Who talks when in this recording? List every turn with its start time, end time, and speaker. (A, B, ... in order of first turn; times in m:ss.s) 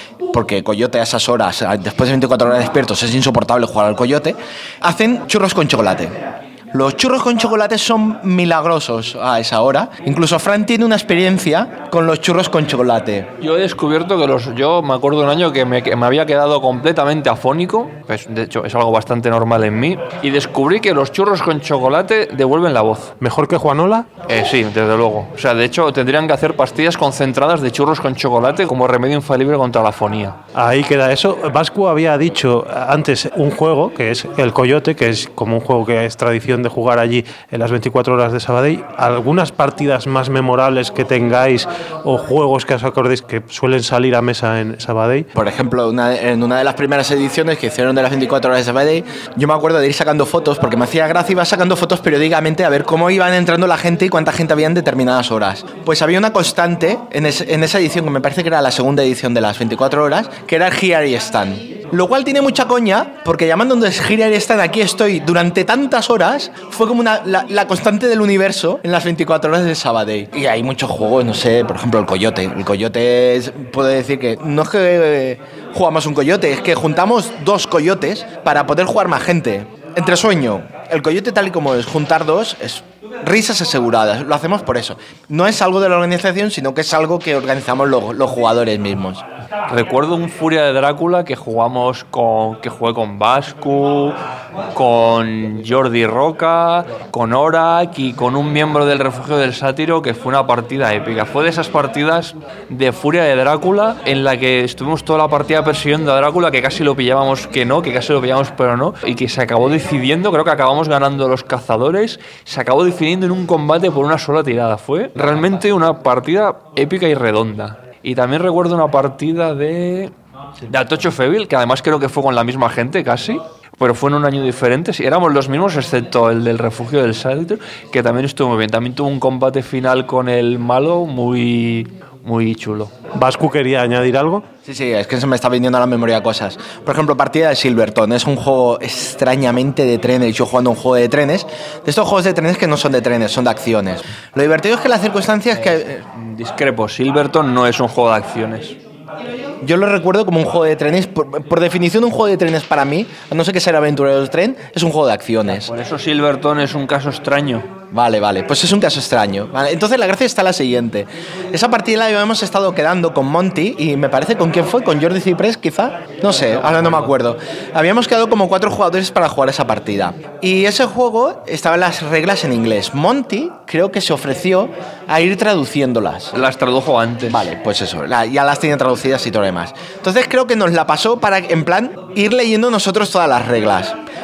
0:00.3-0:06.1 A
0:06.7-0:13.3 A
0:13.4-0:23.1 B
0:23.2-0:24.1 C
0:24.2-0:30.4 B
0:30.5-0:45.3 C
0:45.3-1:29.2 A
1:29.7-1:34.2 B
1:34.7-2:00.1 B
2:00.6-2:12.9 B
2:13.1-2:14.4 C
2:14.6-2:26.0 A
2:25.5-2:28.8 B
2:29.6-2:35.7 A
2:35.5-2:37.7 B
2:37.9-2:56.3 A
2:46.4-2:47.1 B
2:56.3-2:57.5 B
2:57.3-3:04.0 A